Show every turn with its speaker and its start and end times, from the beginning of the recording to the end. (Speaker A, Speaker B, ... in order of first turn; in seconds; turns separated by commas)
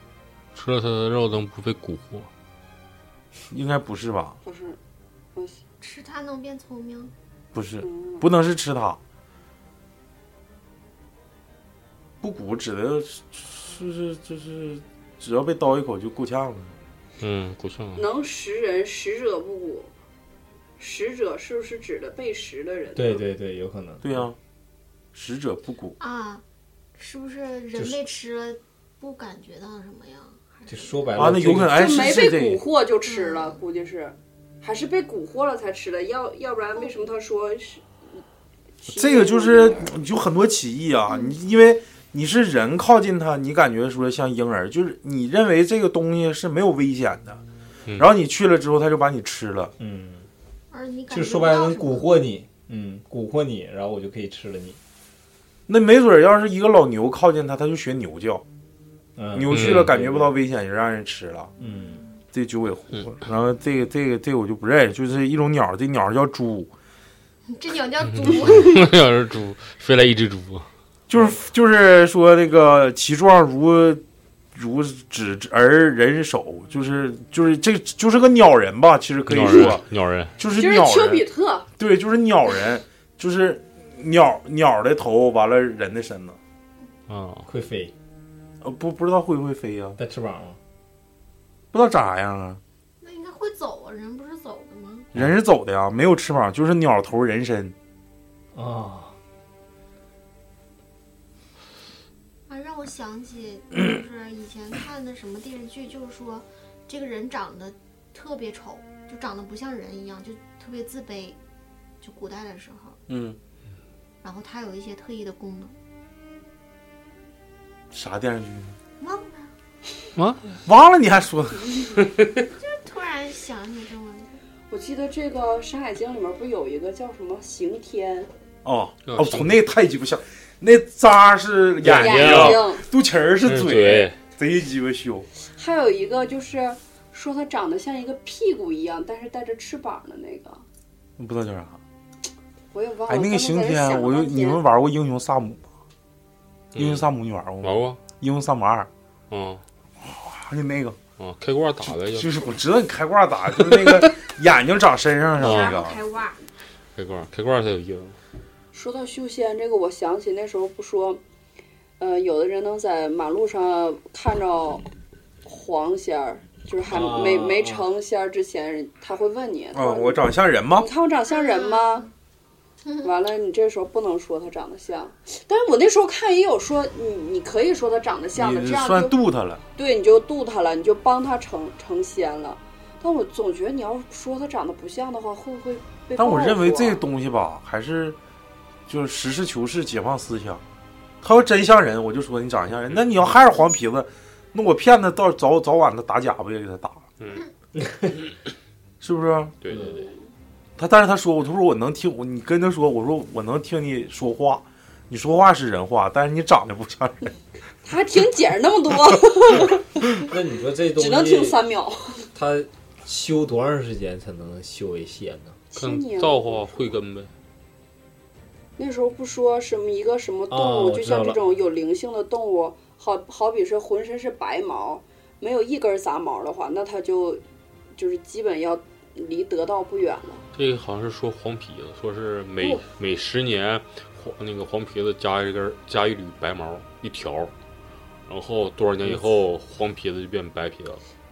Speaker A: 0.5-2.3, Speaker B: 3.5-4.4, Speaker C: 4.4-4.8, Speaker D: 5.8-7.1, Speaker B: 7.5-9.0, Speaker C: 7.8-8.2, Speaker B: 12.2-16.7, Speaker A: 17.2-18.0, Speaker C: 17.9-19.9, Speaker C: 20.8-23.2, Speaker E: 22.9-24.1, Speaker B: 24.0-24.4, Speaker B: 25.1-26.0, Speaker D: 26.0-26.4, Speaker D: 26.9-31.3, Speaker E: 27.7-28.0, Speaker E: 30.7-31.7, Speaker B: 31.1-32.6, Speaker C: 31.7-37.8, Speaker D: 33.0-33.6, Speaker D: 36.8-37.1, Speaker C: 38.8-39.9, Speaker B: 38.9-47.4, Speaker D: 41.1-41.3, Speaker B: 48.0-49.7, Speaker E: 49.8-50.3, Speaker D: 50.7-52.1, Speaker E: 51.1-54.8, Speaker B: 55.7-58.4, Speaker E: 59.2-60.3, Speaker B: 59.3-61.5, Speaker A: 59.5-59.9, Speaker E: 61.6-62.0, Speaker B: 62.3-66.7, Speaker D: 67.5-68.9, Speaker A: 68.2-70.7, Speaker B: 71.1-74.0, Speaker B: 74.5-79.8, Speaker A: 79.3-80.3, Speaker B: 80.4-81.2, Speaker C: 80.5-81.7, Speaker B: 81.8-86.4, Speaker A: 87.1-87.4, Speaker E: 87.5-87.9, Speaker B: 88.6-90.0, Speaker E: 90.0-90.6, Speaker B: 91.7-92.6, Speaker D: 93.0-95.1, Speaker B: 95.1-97.7, Speaker E: 98.5-99.2, Speaker D: 102.5-111.4, Speaker D: 112.0-113.0, Speaker B: 113.1-113.4, Speaker D: 114.2-115.7, Speaker B: 117.9-118.8, Speaker D: 119.0-119.5, Speaker A: 120.2-120.4, Speaker B: 120.7-122.0, Speaker D: 122.5-124.4, Speaker C: 124.7-128.3, Speaker B: 128.6-135.3, Speaker A: 129.1-129.6, Speaker A: 131.8-132.7, Speaker C: 131.9-132.8, Speaker A: 133.4-134.1, Speaker C: 135.6-140.6, Speaker B: 141.2-141.8, Speaker C: 142.7-144.6, Speaker B: 143.1-145.6, Speaker A: 146.7-147.1, Speaker B: 146.7-148.9, Speaker A: 147.6-148.0, Speaker A: 149.3-149.6, Speaker B: 150.0-151.0, Speaker A: 151.2-152.3, Speaker B: 152.0-156.0, Speaker A: 153.7-154.0, Speaker D: 155.4-156.4, Speaker A: 155.4-155.8, Speaker A: 156.9-158.2, Speaker C: 158.7-161.2, Speaker C: 162.0-164.8, Speaker C: 165.4-170.2, Speaker E: 166.9-167.8, Speaker B: 169.7-170.9, Speaker C: 170.7-172.1, Speaker D: 171.3-172.1, Speaker D: 172.8-173.1, Speaker C: 173.0-179.2, Speaker B: 178.3-179.6, Speaker C: 179.8-187.0, Speaker B: 186.2-188.2, Speaker B: 188.9-190.6, Speaker B: 191.2-197.1, Speaker A: 197.2-197.4, Speaker E: 197.8-198.1, Speaker B: 199.0-199.6, Speaker A: 199.6-200.0, Speaker C: 199.7-200.2, Speaker B: 200.8-207.3, Speaker C: 207.8-210.2, Speaker E: 210.3-211.6, Speaker C: 210.9-212.2, Speaker E: 212.3-215.6, Speaker C: 215.7-216.9, Speaker A: 215.8-217.3, Speaker C: 218.8-227.4, Speaker E: 220.5-221.4, Speaker C: 227.9-230.4, Speaker A: 230.5-237.5, Speaker A: 238.3-241.0